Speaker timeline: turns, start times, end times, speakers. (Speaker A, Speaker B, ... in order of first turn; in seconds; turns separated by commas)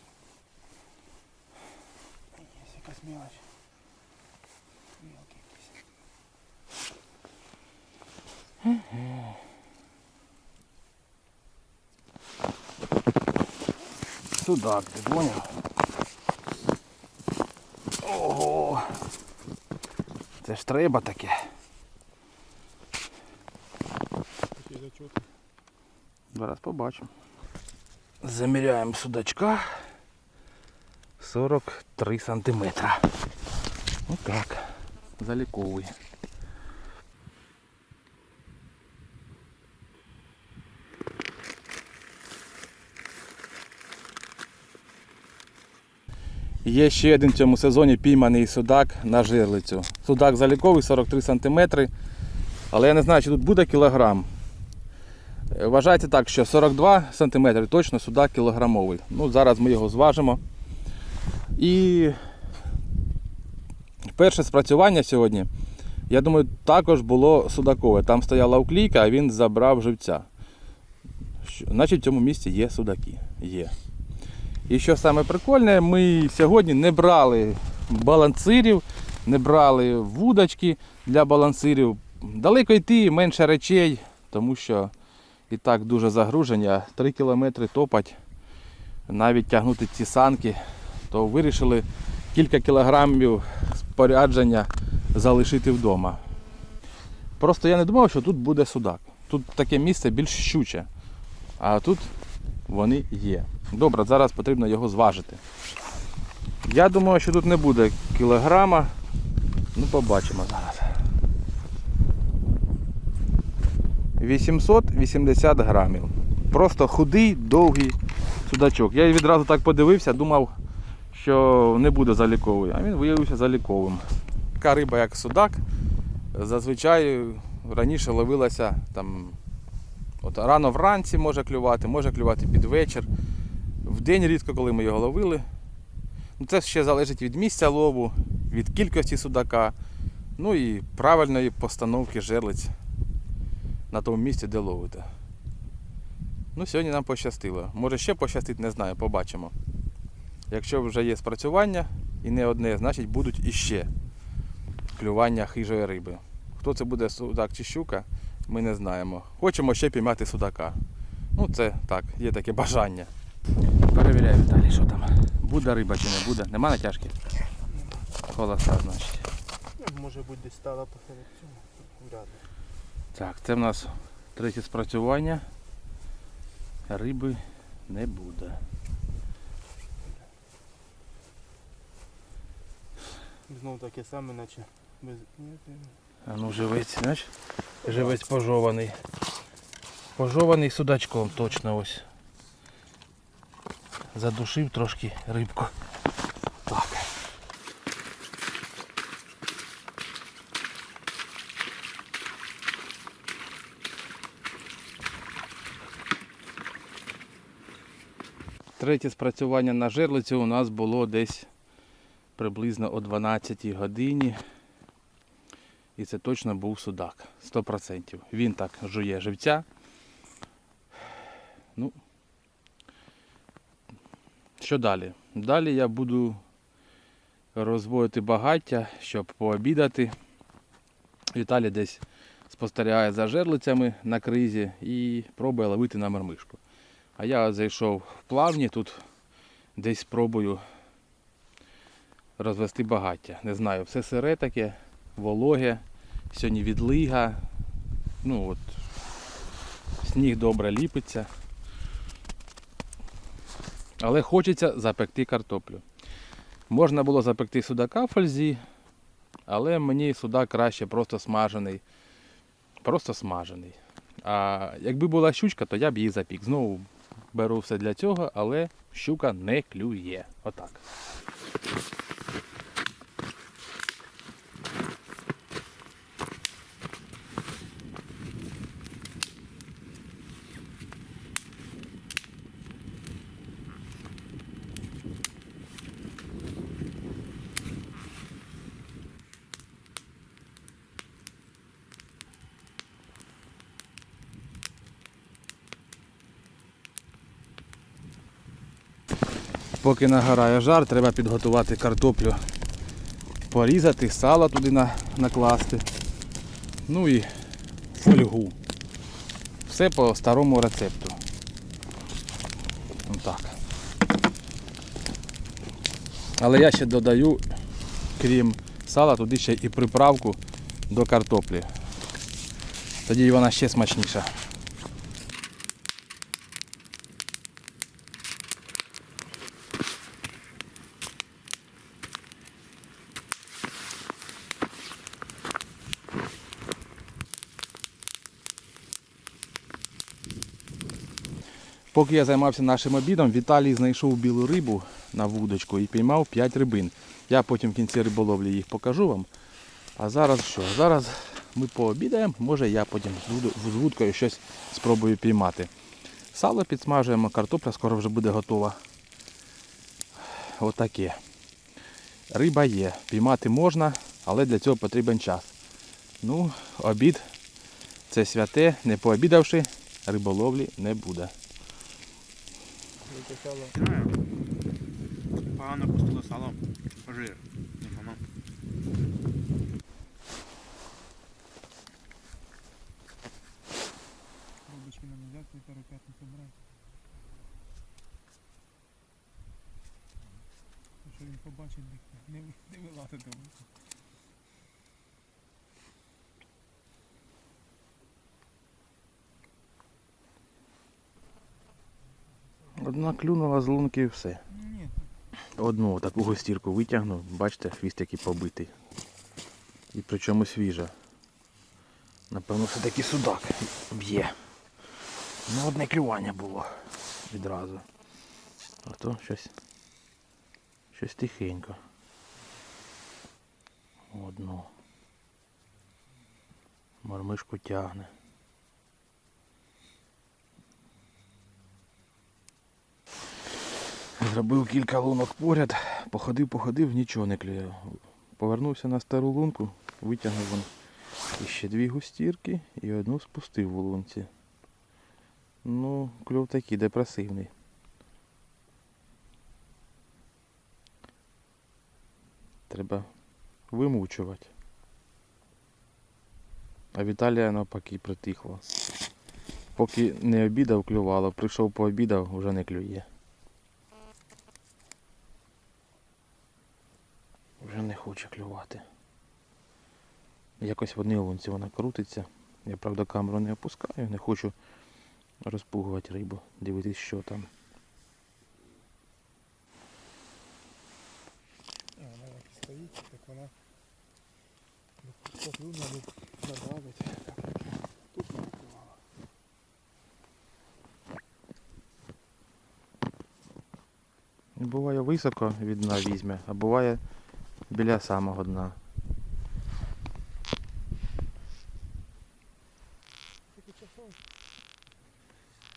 Speaker A: 2.3-3.5, Speaker A: 5.0-5.8, Speaker B: 8.6-9.3, Speaker B: 14.3-15.5, Speaker B: 18.0-19.0, Speaker B: 20.4-21.4, Speaker A: 24.5-25.3, Speaker B: 26.3-27.1, Speaker B: 28.2-29.8, Speaker B: 31.2-33.1, Speaker B: 34.1-35.9, Speaker B: 46.6-51.9, Speaker B: 52.7-54.3, Speaker B: 55.5-60.4, Speaker B: 61.6-62.2, Speaker B: 64.1-65.5, Speaker B: 66.1-70.3, Speaker B: 71.4-73.7, Speaker B: 74.7-84.9, Speaker B: 85.5-88.2, Speaker B: 89.1-96.2, Speaker B: 97.4-100.9, Speaker B: 101.6-102.1, Speaker B: 102.7-105.4, Speaker B: 106.6-108.9, Speaker B: 109.7-111.0, Speaker B: 114.2-120.5, Speaker B: 121.1-124.0, Speaker B: 124.6-125.6, Speaker B: 126.3-129.4, Speaker B: 130.2-133.1, Speaker B: 133.8-135.4, Speaker B: 136.4-139.7, Speaker B: 140.4-142.7, Speaker B: 143.9-145.1, Speaker B: 146.5-149.5, Speaker B: 150.5-153.9, Speaker B: 154.9-160.8, Speaker B: 161.3-163.1, Speaker B: 163.9-167.2, Speaker A: 167.7-168.1, Speaker B: 168.3-169.3, Speaker A: 169.8-172.5, Speaker B: 173.1-175.4, Speaker B: 176.9-178.6, Speaker A: 183.5-186.0, Speaker B: 186.2-187.3, Speaker B: 187.8-189.0, Speaker A: 187.8-188.2, Speaker B: 190.2-192.1, Speaker B: 194.1-195.7, Speaker B: 196.7-197.1, Speaker B: 208.8-211.5, Speaker B: 212.4-214.4, Speaker B: 216.0-219.6, Speaker B: 224.6-226.4, Speaker B: 227.5-230.1, Speaker B: 231.3-236.6, Speaker B: 237.2-239.0, Speaker B: 239.8-240.6, Speaker B: 242.4-247.4, Speaker B: 248.2-248.7, Speaker B: 250.0-251.3, Speaker B: 254.0-255.8, Speaker B: 256.7-258.6, Speaker B: 259.5-261.8, Speaker B: 262.8-270.8, Speaker B: 299.8-302.4, Speaker B: 303.5-305.9, Speaker B: 306.9-307.3, Speaker B: 307.9-308.6, Speaker B: 309.6-311.2, Speaker B: 313.1-313.6, Speaker B: 316.4-317.4, Speaker B: 318.2-320.4, Speaker B: 320.9-321.7, Speaker B: 323.1-324.3, Speaker B: 341.9-349.3, Speaker B: 350.0-355.7, Speaker B: 356.3-358.8, Speaker B: 360.3-361.2, Speaker B: 362.3-365.5, Speaker B: 366.2-367.3, Speaker B: 368.1-371.3, Speaker A: 373.0-373.9, Speaker C: 373.8-374.1, Speaker C: 375.4-378.2, Speaker A: 384.6-386.6, Speaker A: 391.0-393.7, Speaker B: 402.7-404.4, Speaker A: 404.5-405.1, Speaker B: 405.6-408.7, Speaker B: 409.9-410.9, Speaker B: 412.3-414.4, Speaker B: 415.5-416.7, Speaker B: 417.2-417.8, Speaker B: 418.8-419.5, Speaker B: 420.9-421.8, Speaker B: 424.1-424.7, Speaker B: 427.0-428.1, Speaker B: 434.2-440.7, Speaker B: 441.4-444.3, Speaker B: 445.6-447.5, Speaker B: 452.7-453.1, Speaker B: 453.7-454.5, Speaker B: 456.9-458.6, Speaker B: 459.8-463.1, Speaker B: 467.6-468.8, Speaker B: 470.6-474.5, Speaker B: 475.4-477.5, Speaker A: 481.9-483.5, Speaker A: 485.0-489.0, Speaker B: 494.6-497.0, Speaker B: 497.7-498.8, Speaker A: 503.5-504.2